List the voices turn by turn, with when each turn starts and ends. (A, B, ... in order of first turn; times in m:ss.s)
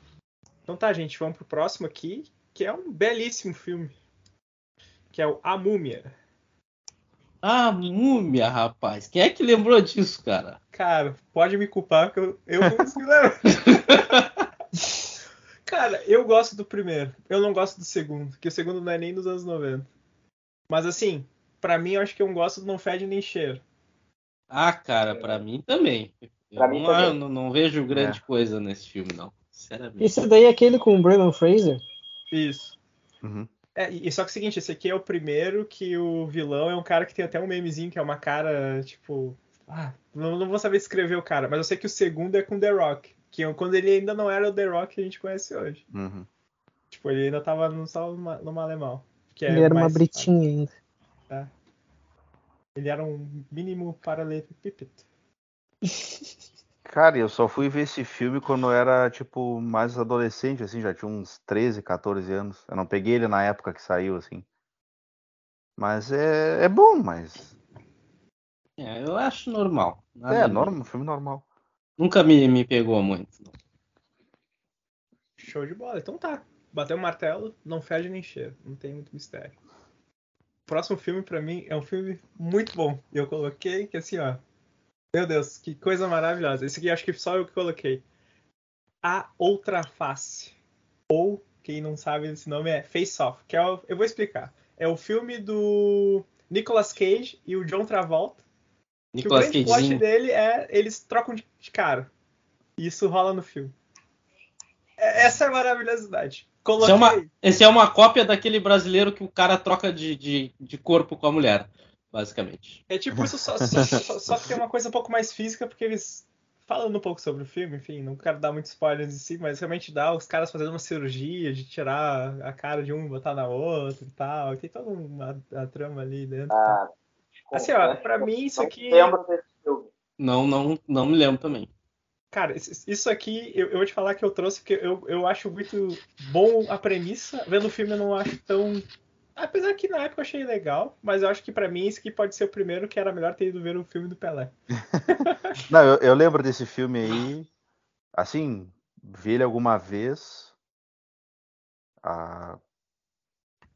0:00.6-0:03.9 A
0:05.1-0:06.1 A
0:07.4-0:10.6 B
0:10.7-0:14.0 A
0:13.5-0:14.2 B
0:15.6-0:19.9 A
0:20.7-0:23.6 A
0:24.5-0:30.2 B
0:25.1-0:25.4 C
0:26.6-0:27.2 C
0:27.9-0:28.2 D
0:30.0-0:31.8 E
0:32.3-0:32.8 A
0:33.2-0:33.5 D
0:33.7-0:45.8 A
0:45.9-0:46.3 D
0:46.9-0:50.3 A
0:49.5-0:50.7 E
0:52.7-0:55.0 A
0:56.8-1:04.4 D
1:05.8-1:07.5 D
1:08.8-1:10.7 B
1:10.3-1:11.4 D
1:12.0-1:13.5 B
1:15.4-1:19.5 A
1:20.7-1:24.4 A
1:25.1-1:28.0 A
1:29.0-1:30.5 A
1:31.1-1:38.4 A
1:39.1-1:40.0 B
1:39.2-1:42.1 A
1:42.8-1:43.7 A
1:45.0-1:47.3 A
1:46.8-1:52.8 B
1:52.9-2:06.8 A
1:53.7-1:54.0 D
2:06.5-2:06.9 C
2:07.5-2:09.9 C
2:07.5-2:09.2 A
2:10.2-2:11.7 B
2:12.3-2:24.5 A
2:25.1-2:25.6 A
2:25.7-2:27.5 D
2:28.1-2:30.5 D
2:32.0-2:32.6 D